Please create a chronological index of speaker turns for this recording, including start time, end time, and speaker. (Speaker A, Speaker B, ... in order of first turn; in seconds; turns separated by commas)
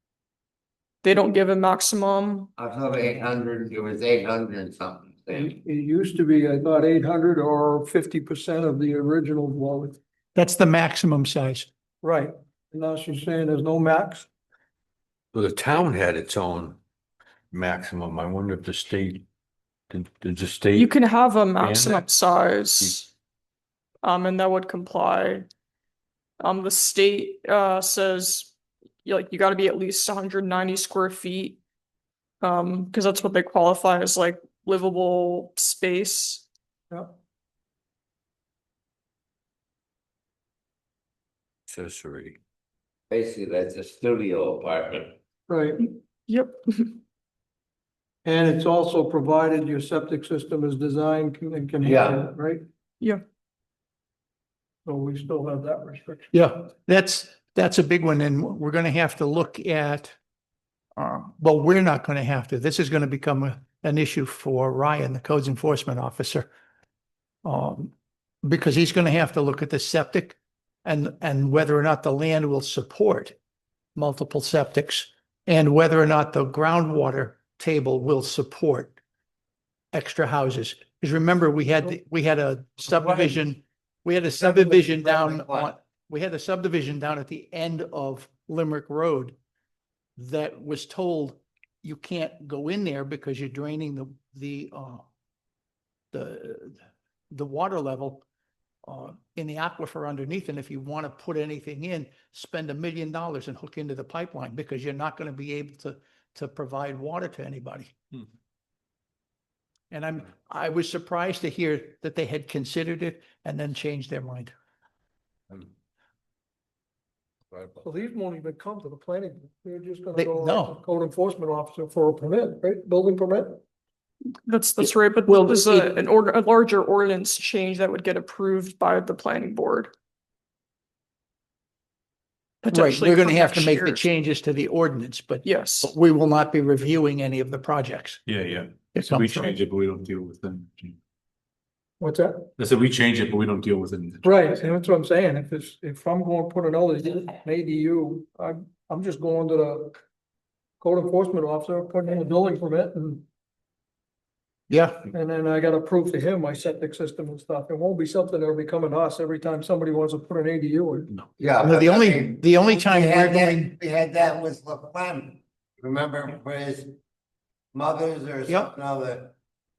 Speaker A: 1.0-2.5, Speaker B: 2.6-5.5, Speaker C: 5.3-10.0, Speaker D: 10.3-11.7, Speaker C: 12.0-14.3, Speaker E: 15.3-16.8, Speaker E: 17.5-19.2, Speaker E: 19.9-20.9, Speaker A: 20.7-23.1, Speaker E: 21.6-22.0, Speaker A: 24.0-25.5, Speaker A: 26.4-28.5, Speaker A: 29.0-31.6, Speaker A: 32.4-36.5, Speaker C: 36.9-37.1, Speaker E: 41.7-42.4, Speaker B: 43.1-45.1, Speaker C: 45.5-45.9, Speaker A: 46.3-47.0, Speaker C: 48.2-52.6, Speaker B: 51.8-52.2, Speaker C: 54.8-56.3, Speaker D: 56.3-60.1, Speaker D: 61.0-66.5, Speaker D: 67.4-67.9, Speaker D: 68.4-73.3, Speaker D: 74.0-79.0, Speaker D: 79.9-89.3, Speaker B: 84.4-85.7, Speaker D: 90.2-95.0, Speaker D: 96.1-96.8, Speaker D: 97.3-98.2, Speaker D: 98.8-107.9, Speaker D: 109.9-114.5, Speaker E: 117.5-117.8, Speaker C: 117.8-123.6, Speaker D: 120.1-120.8, Speaker A: 124.5-129.9, Speaker D: 124.8-126.0, Speaker A: 132.6-134.0, Speaker D: 132.7-138.2, Speaker A: 135.4-135.9, Speaker F: 138.3-141.0, Speaker D: 138.9-139.5, Speaker C: 142.0-142.5, Speaker F: 142.6-144.3, Speaker C: 144.2-150.0, Speaker C: 150.8-153.2, Speaker D: 154.7-155.1, Speaker C: 155.1-162.4, Speaker B: 161.4-165.2, Speaker D: 161.6-163.7, Speaker C: 163.0-166.9, Speaker B: 166.0-166.8, Speaker C: 167.7-169.3, Speaker B: 168.3-169.2